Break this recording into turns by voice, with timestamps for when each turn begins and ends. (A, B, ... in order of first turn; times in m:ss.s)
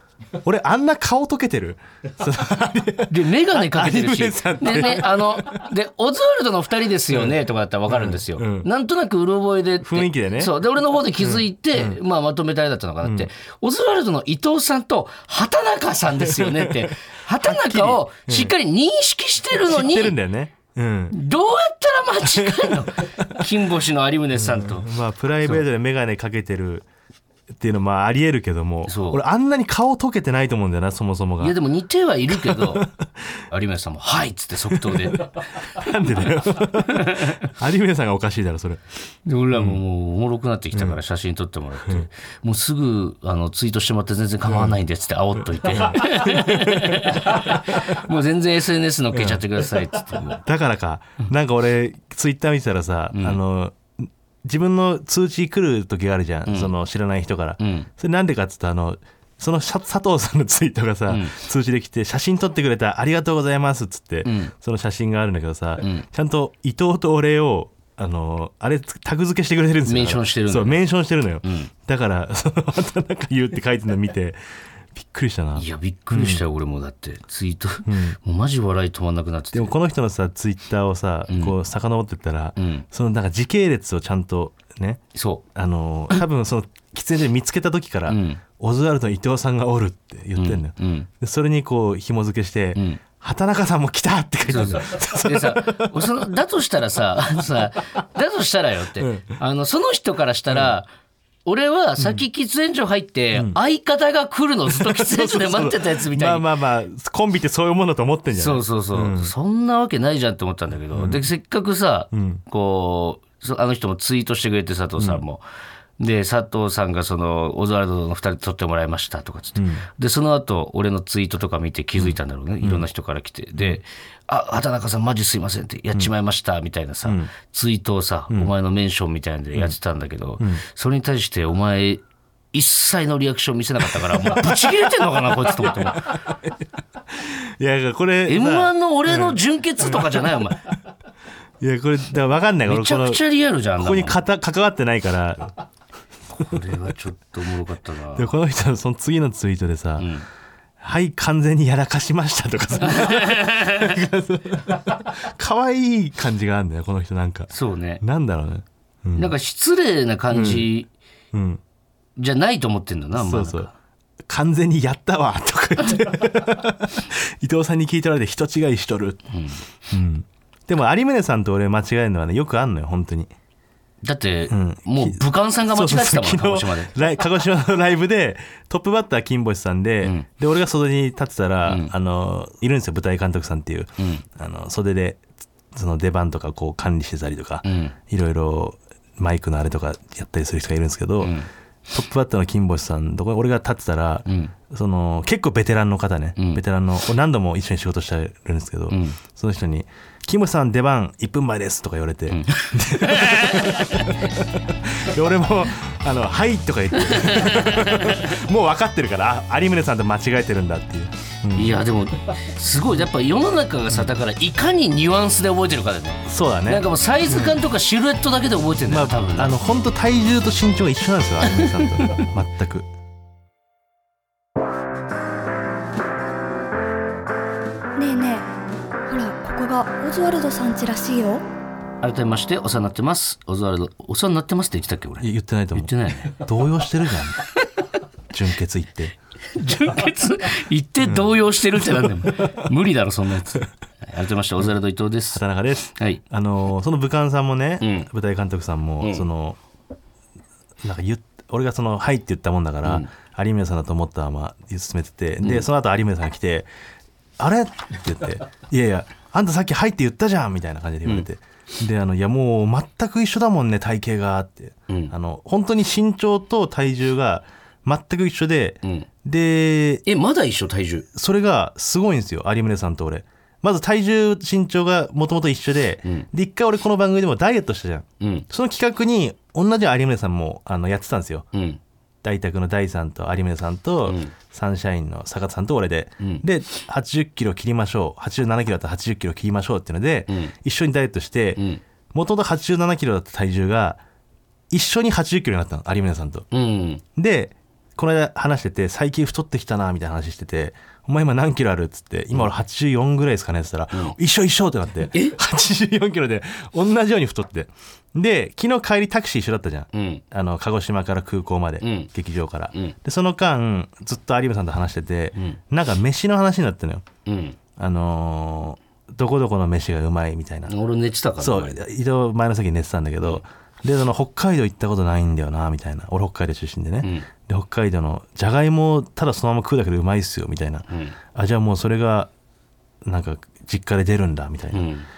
0:00.4-0:05.7 A
0:03.1-0:20.2 B
0:07.1-0:07.4 A
0:07.9-0:08.7 A
0:09.8-0:10.6 A
0:11.2-0:12.0 A
0:13.0-0:13.3 A
0:16.2-0:16.9 A
0:17.4-0:18.5 A
0:19.6-0:21.2 A
0:21.1-0:24.9 B
0:22.3-0:22.9 A
0:24.4-0:26.9 A
0:27.5-0:31.6 A
0:28.9-0:29.2 B
0:31.4-0:32.9 B
0:32.3-0:32.9 A
0:33.5-0:35.5 B
0:34.7-0:38.8 A
0:36.8-0:37.4 B
0:39.3-0:50.4 B
0:39.5-0:39.8 A
0:40.7-0:41.0 A
0:44.5-0:44.8 A
0:45.6-0:47.8 A
0:49.1-0:49.4 A
0:50.4-1:14.4 A
0:53.1-0:53.4 B
0:57.6-0:57.9 B
1:01.1-1:01.4 B
1:04.2-1:04.5 B
1:05.8-1:06.1 B
1:09.8-1:10.8 B
1:11.4-1:11.7 B
1:15.0-1:16.4 A
1:15.6-1:19.8 B
1:17.9-1:18.2 A
1:19.5-1:25.0 A
1:21.3-1:21.6 B
1:22.6-1:22.8 B
1:25.1-1:25.4 B
1:25.5-1:36.3 A
1:28.1-1:28.4 B
1:30.4-1:31.1 B
1:32.8-1:33.0 B
1:34.5-1:40.9 B
1:39.0-1:39.4 A
1:41.5-1:46.5 B
1:43.3-1:43.6 A
1:44.7-1:49.3 A
1:48.3-1:55.4 B
1:50.9-1:51.3 A
1:52.1-1:52.4 A
1:55.0-1:55.2 A
1:56.0-2:16.2 B
1:59.6-1:59.8 A
2:02.0-2:02.9 A
2:07.0-2:07.3 A
2:14.0-2:14.6 A
2:15.4-2:16.6 A
2:17.1-2:20.3 A
2:18.3-2:20.7 B
2:21.6-2:23.2 A
2:22.7-2:24.2 B
2:23.8-2:25.5 A
2:26.3-2:28.3 B
2:28.2-2:30.1 A
2:30.0-2:30.3 B
2:30.8-2:39.4 A
2:32.9-2:33.9 B
2:37.5-2:38.0 B
2:39.2-2:40.9 B
2:40.3-2:40.7 A
2:41.3-2:41.6 A
2:42.2-2:43.7 B
2:43.2-2:43.7 A
2:44.3-2:49.2 A
2:49.3-2:49.6 B
2:49.9-2:53.3 A
2:54.0-2:56.9 B
2:54.5-3:11.4 A
3:01.7-3:01.9 B
3:04.0-3:04.2 B
3:07.6-3:08.0 B
3:11.2-3:11.5 B
3:11.9-3:31.8 A
3:14.3-3:14.5 B
3:16.4-3:16.6 B
3:18.9-3:19.2 B
3:22.3-3:24.2 B
3:27.1-3:28.2 B
3:31.5-3:39.6 B
3:36.3-3:37.6 A
3:38.9-3:42.9 A
3:48.0-3:48.5 C
3:49.1-3:51.4 C
3:52.0-3:56.4 B
3:55.2-3:57.5 A
3:58.3-3:59.2 A
3:59.5-4:05.4 B
4:01.0-4:02.6 A
4:05.3-4:09.6 A
4:06.0-4:06.2 B
4:07.8-4:08.1 B
4:09.0-4:09.3 B
4:10.8-4:16.7 A
4:12.8-4:13.1 B
4:15.4-4:15.7 B
4:17.4-4:30.0 A
4:30.1-4:31.1 B
4:31.1-4:41.5 A
4:38.2-4:38.5 B
4:41.5-4:41.8 B
4:42.2-4:54.0 A
4:44.1-4:44.3 B
4:50.3-4:50.5 B
4:51.6-4:51.8 B
4:54.7-4:56.5 A
4:56.5-4:57.0 B
4:57.2-5:17.0 A
5:09.9-5:10.2 B
5:11.8-5:12.1 B
5:17.3-5:17.6 B
5:17.8-5:20.7 A
5:20.7-5:21.8 B
5:21.4-5:32.3 A
5:27.0-5:27.3 B
5:30.9-5:31.2 B
5:33.0-5:34.9 A
5:34.7-5:35.1 B